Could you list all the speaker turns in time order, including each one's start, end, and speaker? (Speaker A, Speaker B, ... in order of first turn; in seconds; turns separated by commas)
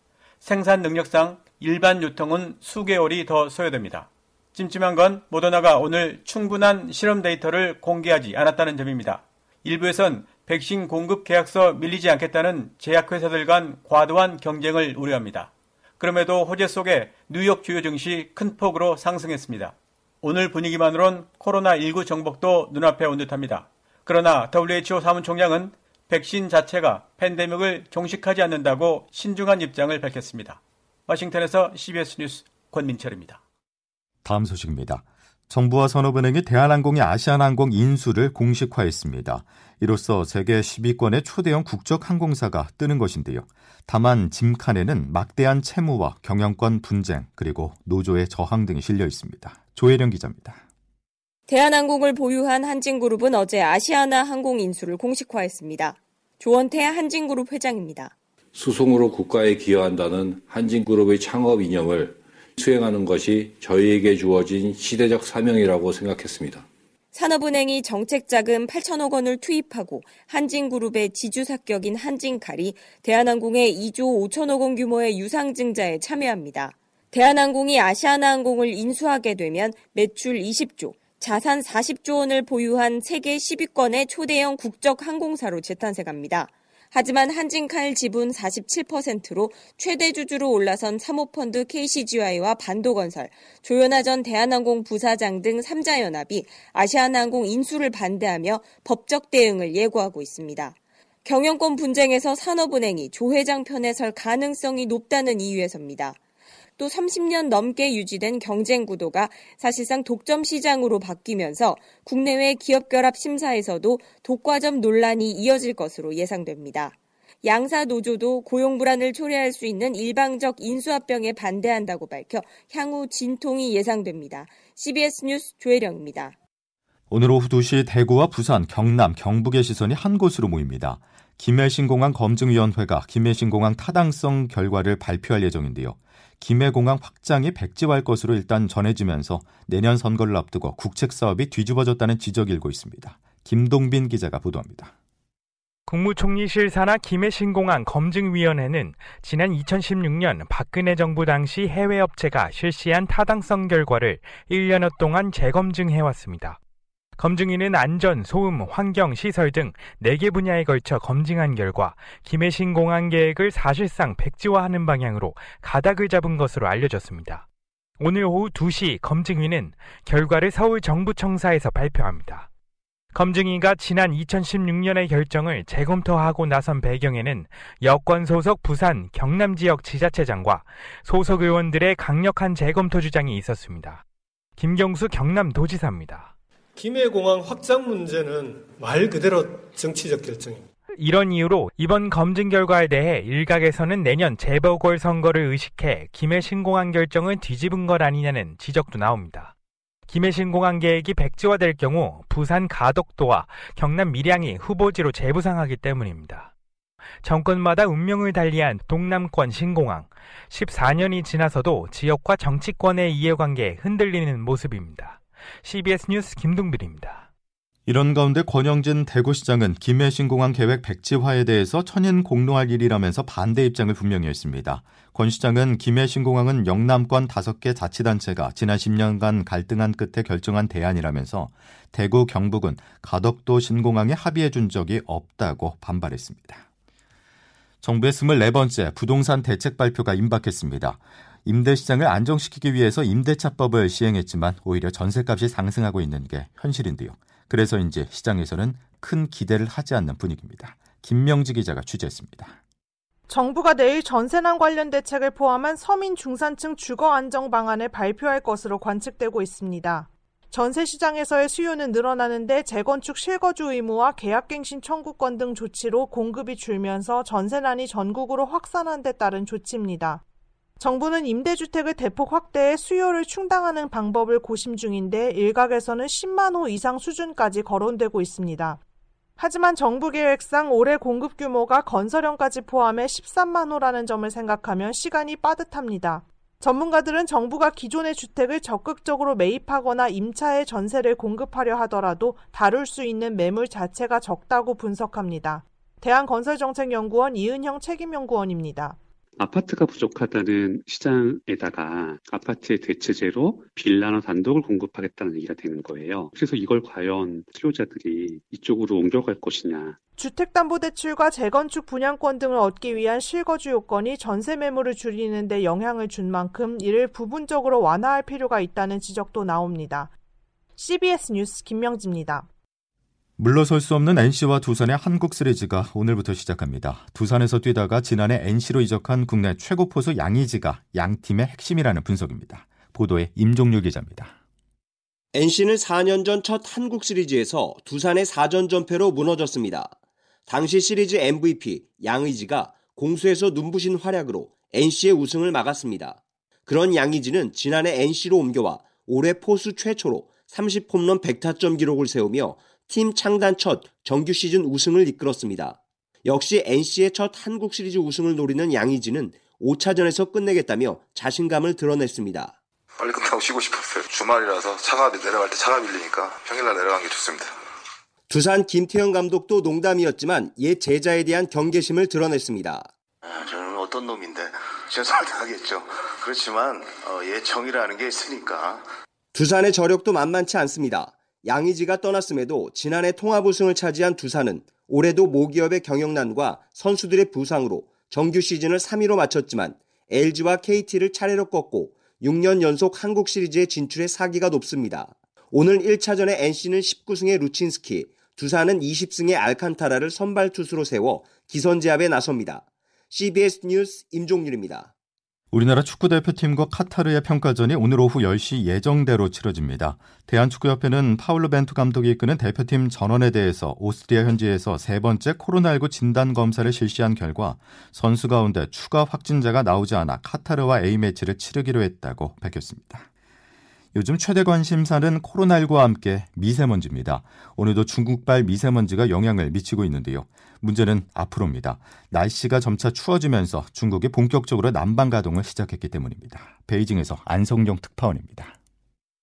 Speaker A: 0.4-33.4, Speaker B: 34.2-50.6, Speaker C: 51.5-58.1, Speaker D: 58.5-66.7, Speaker C: 67.1-106.2, Speaker C: 106.8-126.3, Speaker B: 127.1-144.9, Speaker E: 145.9-156.6, Speaker E: 157.2-167.4, Speaker E: 168.0-172.5, Speaker E: 173.1-184.0, Speaker E: 184.6-186.3, Speaker F: 186.8-190.6, Speaker E: 190.9-199.5, Speaker E: 200.1-206.5, Speaker E: 207.2-217.2, Speaker B: 217.9-236.6, Speaker B: 237.8-252.6, Speaker G: 253.3-270.2, Speaker G: 270.8-278.8, Speaker G: 279.4-299.0, Speaker H: 299.4-309.9, Speaker G: 310.2-320.1, Speaker G: 320.8-322.5, Speaker B: 323.4-334.3, Speaker I: 335.3-339.9, Speaker I: 340.5-362.6, Speaker J: 363.0-367.5, Speaker I: 368.3-372.9, Speaker J: 373.3-378.8, Speaker I: 379.3-404.9, Speaker B: 405.5-423.1, Speaker B: 423.9-438.5